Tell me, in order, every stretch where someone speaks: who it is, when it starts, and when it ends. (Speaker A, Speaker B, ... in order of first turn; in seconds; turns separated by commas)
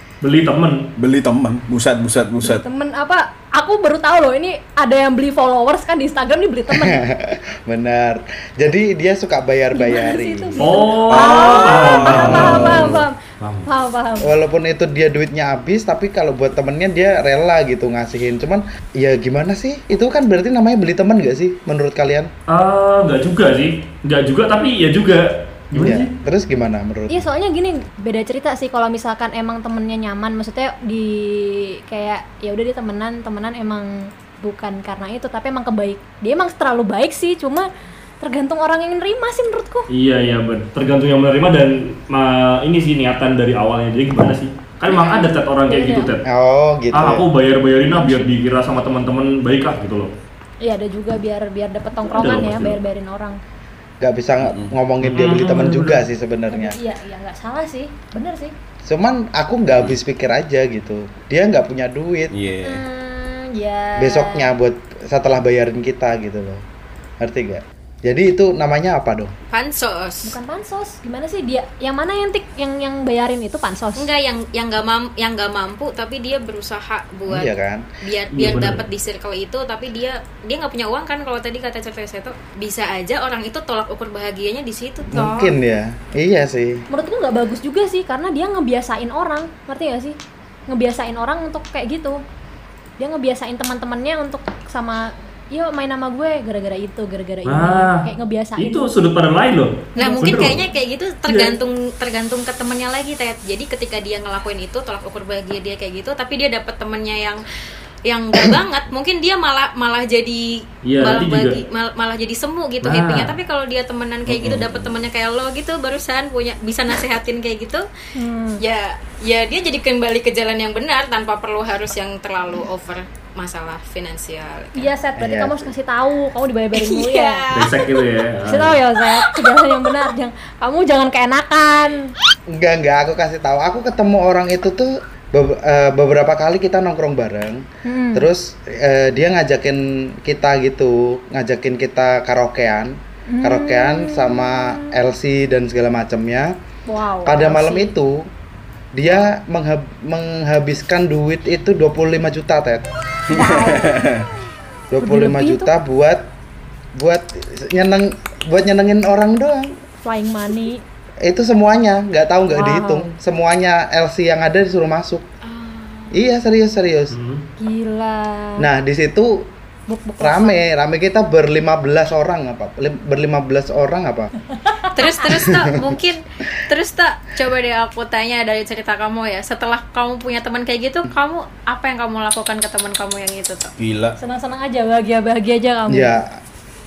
Speaker A: 0.2-0.9, Speaker B: 1.0-2.6, Speaker C: 2.4-7.0, Speaker D: 6.7-10.6, Speaker C: 9.7-14.3, Speaker A: 10.6-13.7, Speaker B: 11.1-13.0, Speaker D: 14.2-22.3, Speaker A: 22.5-26.1, Speaker D: 25.7-27.2, Speaker C: 27.1-37.7, Speaker C: 38.2-39.9, Speaker A: 39.9-46.2, Speaker C: 44.9-46.1, Speaker D: 46.2-47.2, Speaker A: 46.9-50.1, Speaker C: 47.9-48.3, Speaker C: 50.6-53.4, Speaker A: 52.0-52.8, Speaker D: 54.0-56.8, Speaker B: 54.4-54.7, Speaker A: 55.0-56.0, Speaker C: 56.5-58.5, Speaker D: 58.8-62.3, Speaker B: 62.3-62.8, Speaker C: 62.6-64.5, Speaker D: 64.0-66.6, Speaker D: 67.2-69.3, Speaker E: 69.5-70.3, Speaker C: 70.2-74.1, Speaker E: 74.0-85.5, Speaker D: 77.3-77.8, Speaker A: 78.3-78.8, Speaker D: 85.1-86.8, Speaker C: 86.9-90.2, Speaker C: 90.7-92.2, Speaker C: 93.0-98.9, Speaker A: 97.5-100.6, Speaker C: 100.0-100.6, Speaker E: 100.0-107.4, Speaker A: 101.3-101.5, Speaker E: 108.0-117.8, Speaker A: 110.8-111.6, Speaker A: 112.8-113.3, Speaker B: 114.3-114.7, Speaker C: 118.1-118.6, Speaker E: 118.6-124.9, Speaker C: 124.8-127.4, Speaker D: 125.2-125.7, Speaker E: 126.7-127.9, Speaker A: 127.5-128.8, Speaker C: 128.4-132.1, Speaker D: 132.5-146.6, Speaker C: 137.8-138.3, Speaker C: 143.3-145.0, Speaker C: 146.8-147.9, Speaker D: 147.2-148.3, Speaker D: 148.9-152.9, Speaker B: 153.3-154.3, Speaker C: 153.3-154.1, Speaker D: 154.9-156.3, Speaker C: 155.0-155.7, Speaker D: 156.9-159.8, Speaker C: 160.0-160.8, Speaker D: 161.2-165.3, Speaker C: 162.5-163.1, Speaker E: 165.4-166.2, Speaker D: 166.1-167.2, Speaker A: 167.1-167.4, Speaker C: 167.6-168.7, Speaker D: 168.6-169.5, Speaker C: 169.9-170.6, Speaker D: 170.2-174.3, Speaker C: 174.5-175.2, Speaker E: 174.9-183.7, Speaker D: 175.3-175.9, Speaker B: 183.8-184.2, Speaker C: 184.2-186.1, Speaker D: 185.9-186.4